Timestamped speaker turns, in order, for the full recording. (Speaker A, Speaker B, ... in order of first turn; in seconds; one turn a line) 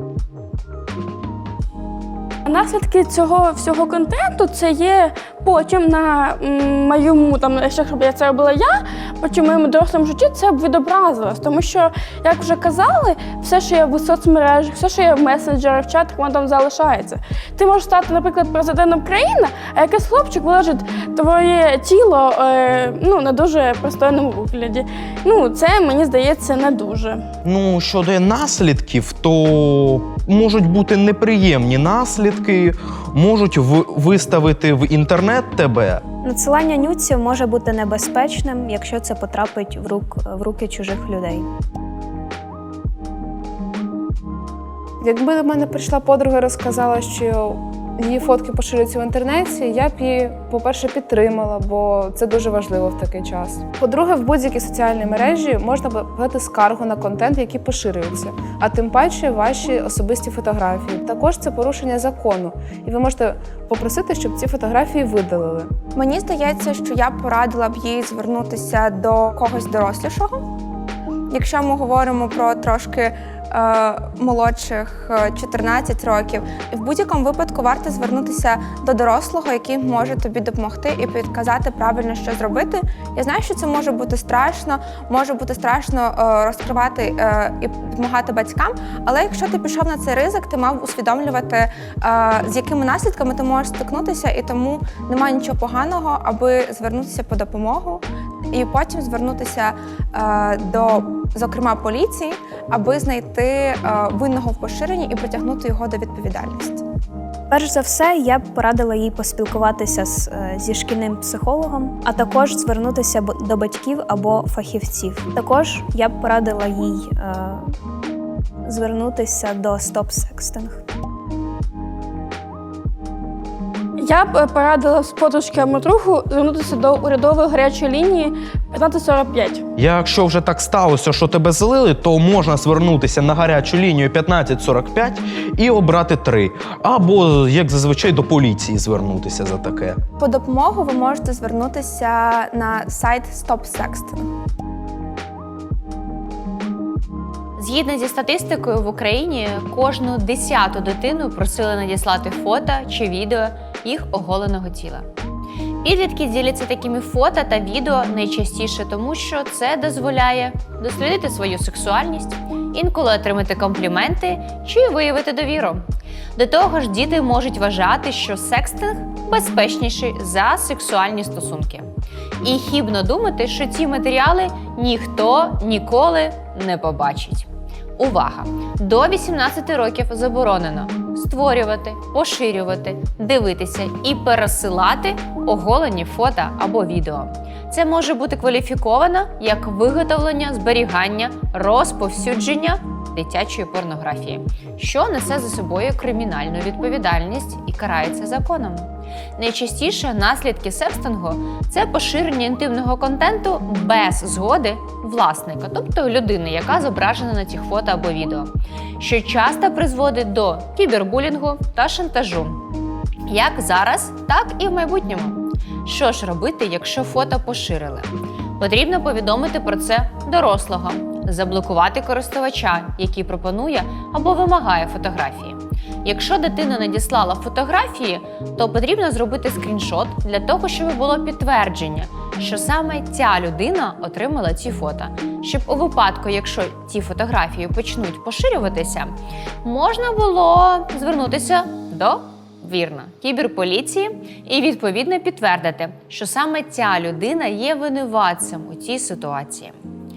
Speaker A: 2.5-27.2
Speaker B: 27.4-36.0
Speaker C: 36.2-41.5
Speaker D: 45.0-65.7
Speaker E: 65.9-70.4
Speaker E: 71.3-106.8
Speaker C: 107.5-117.7
Speaker C: 118.7-120.8
Speaker A: 124.0-129.6
Speaker B: 129.8-140.0
Speaker E: 140.2-144.2
Speaker F: 147.6-155.1
Speaker F: 155.8-165.8
Speaker F: 166.3-171.9
Speaker F: 172.4-212.6
Speaker F: 213.3-249.8